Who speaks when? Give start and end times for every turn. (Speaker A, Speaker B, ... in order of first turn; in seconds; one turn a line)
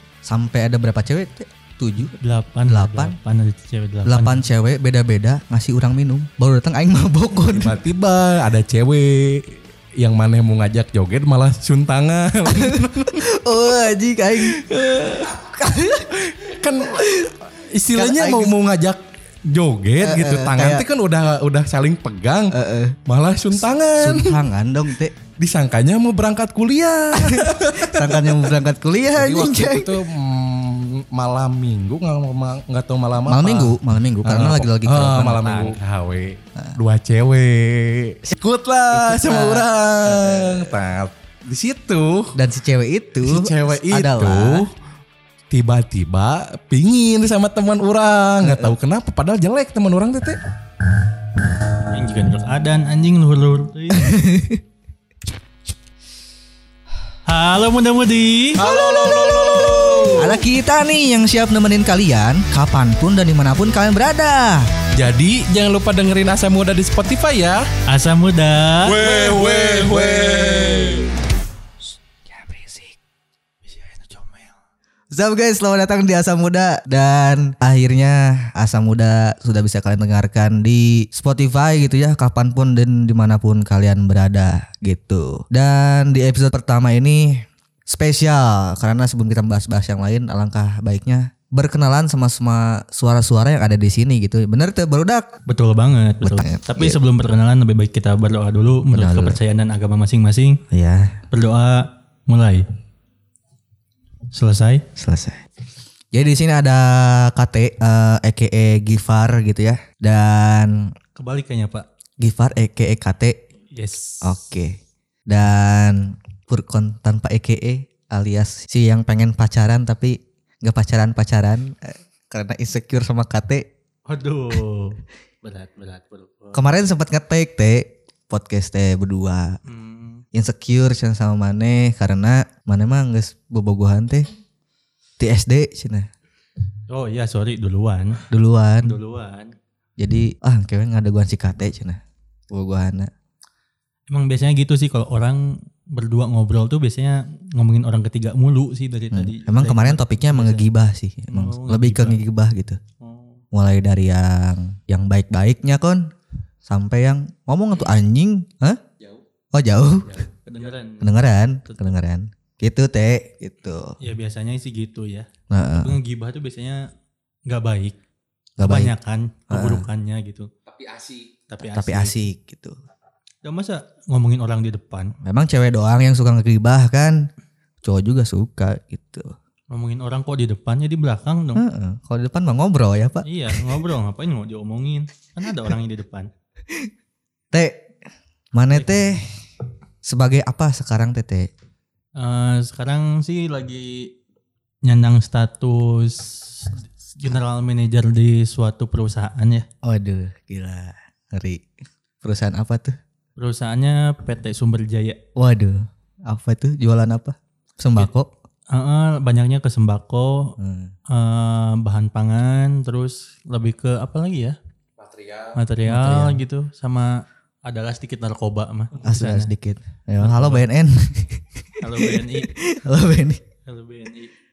Speaker A: 0.2-3.2
Speaker B: 2.2-4.4
Speaker A: 4.1-7.8
Speaker C: 7.5-13.5
Speaker A: 12.5-14.6
Speaker C: 14.4-15.5
Speaker A: 15.3-16.1
Speaker C: 16.1-22.6
Speaker A: 16.9-17.3
Speaker A: 17.9-18.6
Speaker A: 20.0-20.9
Speaker A: 22.5-23.0
Speaker C: 23.1-24.4
Speaker A: 24.0-25.1
Speaker C: 25.4-28.6
Speaker A: 27.1-30.0
Speaker C: 29.1-42.4
Speaker A: 33.3-35.8
Speaker A: 38.9-40.8
Speaker A: 42.4-44.7
Speaker C: 43.2-44.7
Speaker C: 45.5-50.4
Speaker A: 48.4-48.8
Speaker B: 51.9-54.2
Speaker A: 53.9-54.6
Speaker B: 57.3-58.6
Speaker C: 58.6-60.4
Speaker A: 58.7-64.7
Speaker C: 64.9-67.7
Speaker B: 67.9-69.0
Speaker C: 68.8-71.1
Speaker A: 69.0-71.1
Speaker A: 72.2-73.0
Speaker B: 73.6-74.6
Speaker A: 75.1-95.3
Speaker B: 95.5-100.6
Speaker A: 96.2-97.0
Speaker A: 98.9-99.4
Speaker A: 100.7-101.2
Speaker B: 101.3-102.7
Speaker B: 104.3-104.8
Speaker A: 105.0-105.4
Speaker A: 106.1-110.9
Speaker B: 111.2-111.9
Speaker A: 112.2-113.4
Speaker B: 113.7-114.4
Speaker A: 114.2-123.7
Speaker B: 124.1-126.7
Speaker A: 126.5-129.6
Speaker B: 129.7-130.2
Speaker A: 130.3-134.3
Speaker A: 135.2-136.1
Speaker B: 136.9-138.2
Speaker A: 138.3-139.0
Speaker B: 138.8-139.6
Speaker A: 140.0-142.0
Speaker A: 142.5-143.1
Speaker B: 144.1-150.7
Speaker A: 149.1-152.8
Speaker B: 151.3-152.2
Speaker B: 153.0-153.4
Speaker A: 153.5-156.1
Speaker A: 156.7-158.8
Speaker C: 159.0-159.2
Speaker A: 159.5-160.2
Speaker C: 160.1-160.8
Speaker B: 160.5-162.0
Speaker A: 161.0-164.0
Speaker B: 164.0-165.3
Speaker A: 165.5-166.0
Speaker B: 165.8-166.8
Speaker B: 167.5-168.0
Speaker A: 168.6-168.9
Speaker B: 168.6-170.5
Speaker A: 169.5-169.9
Speaker C: 170.7-171.3
Speaker B: 171.5-172.2
Speaker A: 171.6-172.8
Speaker B: 173.4-175.2
Speaker A: 175.2-177.2
Speaker A: 177.8-179.3
Speaker B: 179.7-181.6
Speaker A: 181.6-183.8
Speaker B: 183.2-186.3
Speaker A: 187.5-187.8
Speaker A: 188.5-189.4
Speaker A: 190.0-191.5
Speaker B: 192.2-194.1
Speaker B: 194.8-199.7
Speaker A: 199.8-201.7
Speaker A: 202.2-203.0
Speaker B: 203.4-205.2
Speaker A: 205.4-208.3
Speaker B: 208.7-210.6
Speaker A: 210.6-210.9
Speaker B: 211.1-214.6
Speaker C: 215.0-215.6
Speaker B: 215.6-219.5
Speaker A: 215.9-216.4
Speaker A: 219.0-223.4
Speaker B: 220.2-220.7
Speaker B: 221.8-222.5
Speaker B: 223.7-224.3